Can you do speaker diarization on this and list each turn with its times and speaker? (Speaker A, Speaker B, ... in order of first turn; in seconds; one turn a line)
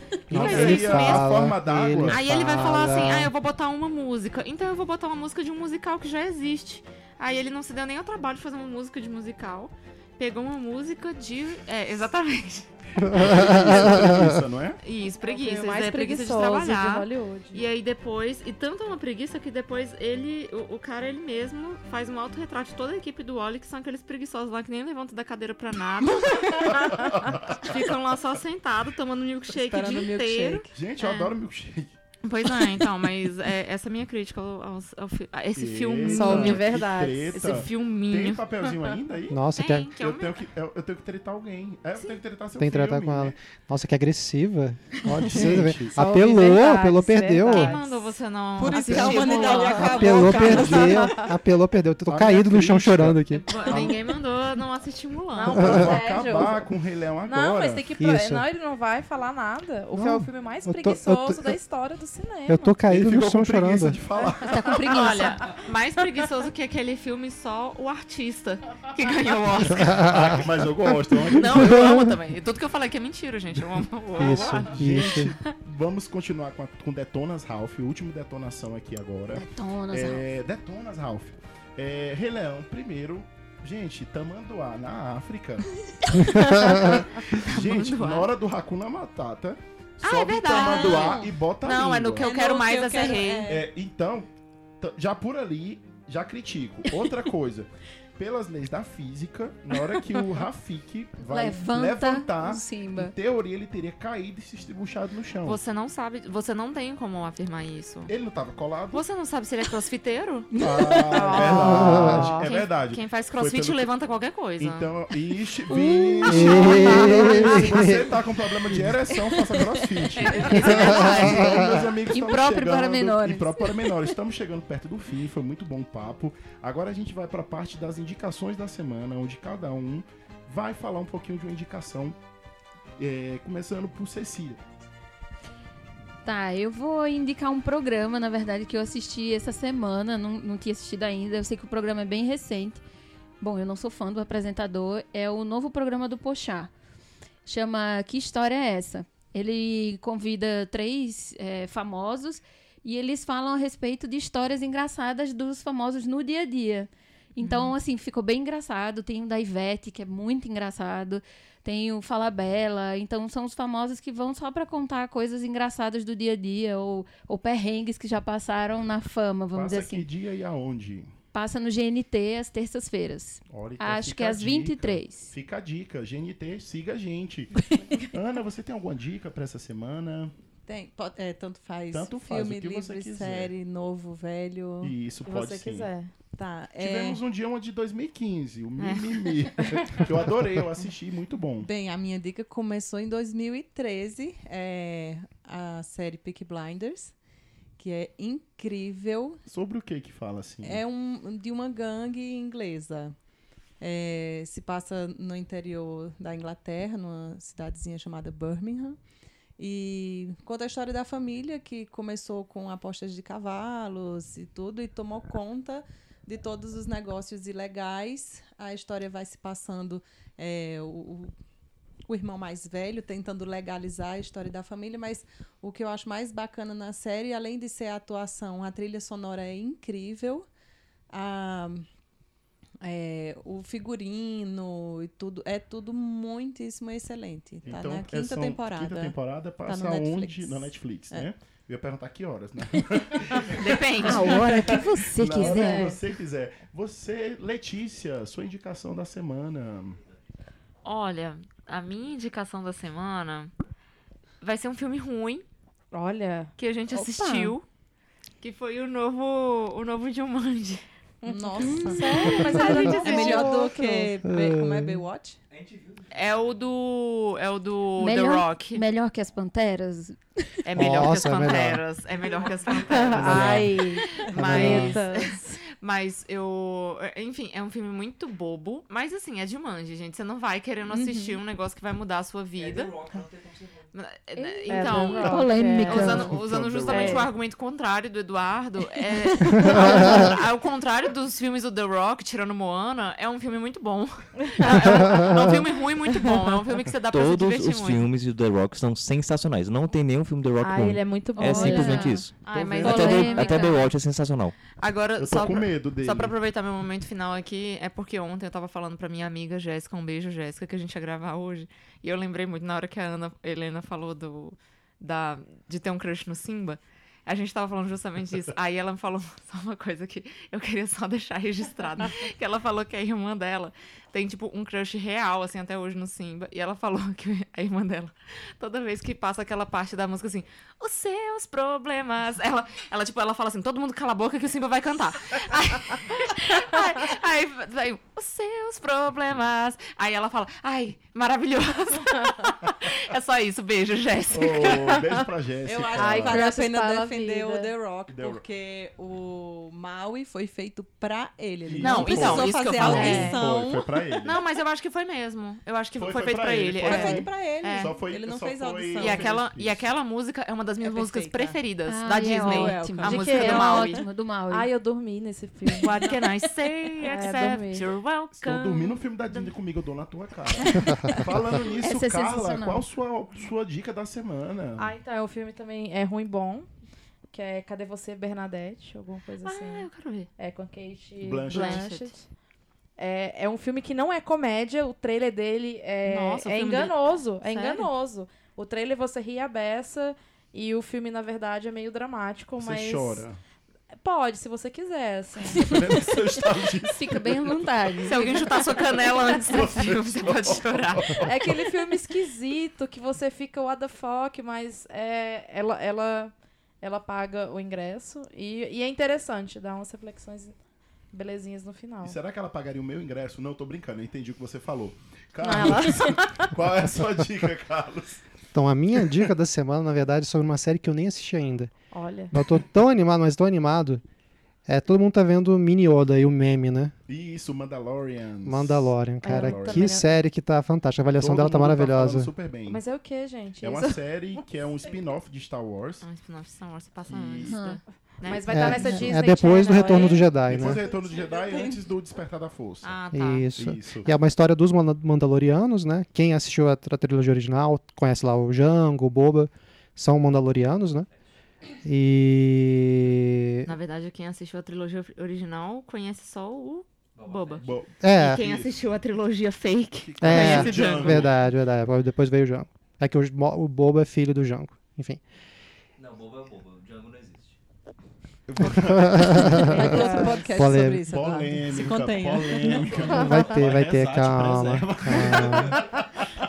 Speaker A: 0.3-3.3
Speaker B: 0.3-1.4
Speaker C: 0.3-2.2
Speaker B: 2.1-13.9
Speaker A: 13.0-14.4
Speaker C: 13.1-14.8
Speaker B: 14.8-31.3
Speaker D: 15.3-17.6
Speaker C: 26.8-27.8
Speaker E: 29.5-30.7
Speaker C: 30.7-31.9
Speaker B: 32.2-38.4
Speaker C: 35.6-39.4
Speaker D: 36.1-37.6
Speaker A: 39.3-39.9
Speaker B: 39.5-40.4
Speaker C: 40.0-43.4
Speaker A: 42.6-47.8
Speaker C: 45.0-46.0
Speaker D: 45.9-48.0
Speaker B: 47.5-50.7
Speaker E: 48.6-51.2
Speaker D: 48.7-51.3
Speaker A: 49.8-53.6
Speaker C: 52.1-54.0
Speaker B: 53.5-55.8
Speaker D: 55.4-56.7
Speaker C: 55.5-57.9
Speaker A: 55.6-55.9
Speaker D: 57.3-62.8
Speaker A: 58.0-58.5
Speaker A: 59.9-61.6
Speaker A: 62.5-64.0
Speaker C: 62.9-64.7
Speaker D: 64.2-64.9
Speaker F: 64.5-65.4
Speaker B: 64.5-70.2
Speaker A: 69.7-72.0
Speaker C: 70.0-71.8
Speaker B: 71.3-74.8
Speaker A: 74.2-75.3
Speaker C: 74.7-85.7
Speaker F: 79.3-80.2
Speaker B: 86.3-88.3
Speaker C: 86.6-92.3
Speaker B: 90.0-93.5
Speaker E: 90.5-91.3
Speaker E: 92.2-93.7
Speaker C: 93.5-94.3
Speaker C: 94.8-105.6
Speaker F: 101.2-103.1
Speaker B: 105.5-108.1
Speaker C: 108.1-109.0
Speaker B: 108.9-110.5
Speaker C: 110.6-113.9
Speaker D: 111.1-112.5
Speaker B: 111.1-114.9
Speaker A: 111.5-112.3
Speaker C: 114.6-132.2
Speaker A: 116.2-118.0
Speaker F: 116.2-117.2
Speaker B: 120.4-121.3
Speaker F: 120.5-121.5
Speaker A: 121.3-121.6
Speaker F: 122.1-123.9
Speaker C: 133.0-134.6
Speaker F: 136.2-142.8
Speaker F: 143.4-146.7
Speaker F: 147.5-170.1
Speaker C: 169.5-171.1
Speaker F: 171.3-175.3
Speaker C: 173.5-180.3
Speaker E: 180.7-184.9
Speaker C: 181.9-183.5
Speaker C: 184.8-185.9
Speaker D: 185.2-186.1
Speaker E: 186.3-187.2
Speaker C: 186.8-191.7
Speaker B: 188.8-189.5
Speaker E: 191.6-197.1
Speaker E: 197.8-199.4
Speaker C: 199.5-200.8
Speaker E: 200.6-203.2
Speaker E: 203.8-209.0
Speaker E: 209.6-221.3
Speaker E: 222.1-230.5
Speaker E: 231.1-231.9
Speaker E: 232.8-241.3
Speaker C: 237.7-250.0
Speaker B: 243.5-244.5
Speaker F: 244.0-245.9
Speaker D: 245.4-246.0
Speaker B: 250.8-253.5
Speaker B: 254.4-255.4
Speaker D: 255.9-256.5
Speaker B: 256.6-257.6
Speaker F: 256.9-257.6
Speaker B: 258.4-260.9
Speaker D: 261.2-264.1
Speaker E: 261.3-265.4
Speaker F: 261.6-262.0
Speaker B: 262.4-263.7
Speaker A: 264.2-265.1
Speaker G: 265.5-266.6
Speaker B: 266.1-268.8
Speaker F: 268.0-270.2
Speaker B: 270.6-282.9
Speaker A: 270.7-271.9
Speaker G: 272.3-272.7
Speaker D: 272.7-275.6
Speaker A: 273.1-275.0
Speaker D: 280.9-281.3
Speaker G: 282.6-283.9
Speaker B: 283.9-298.1
Speaker F: 284.4-286.4
Speaker D: 284.7-286.2
Speaker C: 286.0-287.3
Speaker D: 286.9-287.3
Speaker C: 289.6-290.2
Speaker D: 294.6-295.2
Speaker D: 296.2-296.5
Speaker G: 297.1-304.6
Speaker D: 300.6-302.2
Speaker F: 301.4-302.3
Speaker B: 302.4-303.6
Speaker C: 302.5-303.2
Speaker F: 302.8-303.8
Speaker D: 303.0-303.5
Speaker B: 304.7-345.0
Speaker C: 305.2-306.4
Speaker C: 344.3-346.4
Speaker E: 345.7-353.9
Speaker D: 345.9-347.7
Speaker C: 348.1-348.4
Speaker C: 351.6-354.4
Speaker B: 351.8-353.4
Speaker D: 353.1-353.3
Speaker B: 354.2-357.9
Speaker C: 356.0-359.9
Speaker E: 356.8-359.3
Speaker B: 359.0-364.0
Speaker E: 360.8-361.6
Speaker F: 361.9-364.7
Speaker E: 362.4-363.4
Speaker D: 363.1-363.9
Speaker D: 364.5-366.2
Speaker B: 365.7-369.5
Speaker D: 367.1-367.9
Speaker C: 368.4-374.9
Speaker F: 371.8-372.9
Speaker D: 374.8-376.7
Speaker D: 377.3-382.3
Speaker B: 379.4-380.3
Speaker C: 381.2-381.9
Speaker B: 381.5-382.1
Speaker D: 383.0-393.3
Speaker B: 386.1-387.9
Speaker C: 392.6-393.4
Speaker D: 394.0-395.9
Speaker C: 395.6-397.6
Speaker F: 396.8-398.7
Speaker B: 398.0-401.2
Speaker C: 399.5-401.6
Speaker D: 401.2-410.6
Speaker D: 411.1-412.2
Speaker C: 412.0-418.3
Speaker D: 415.4-416.5
Speaker A: 418.5-421.7
Speaker D: 421.9-422.4
Speaker A: 422.3-424.0
Speaker A: 424.7-426.9
Speaker C: 427.1-429.9
Speaker A: 428.5-432.3
Speaker D: 429.2-430.2
Speaker C: 431.2-432.8
Speaker D: 432.7-435.0
Speaker C: 433.6-436.1
Speaker B: 436.0-439.0
Speaker C: 437.1-437.6
Speaker F: 437.4-437.8
Speaker D: 438.2-440.4
Speaker A: 438.5-440.8
Speaker C: 438.7-439.1
Speaker E: 440.1-441.8
Speaker C: 440.4-443.0
Speaker B: 442.8-443.5
Speaker A: 443.1-451.1
Speaker C: 443.6-444.1
Speaker A: 451.9-453.7
Speaker B: 453.6-461.3
Speaker G: 457.2-457.8
Speaker C: 457.6-458.7
Speaker A: 458.0-458.4
Speaker C: 460.0-461.5
Speaker A: 460.2-465.2
Speaker G: 466.0-467.6
Speaker C: 468.5-469.9
Speaker A: 468.7-471.0
Speaker E: 469.7-473.1
Speaker D: 469.8-470.8
Speaker C: 471.1-476.3
Speaker A: 473.1-475.8
Speaker D: 473.1-473.5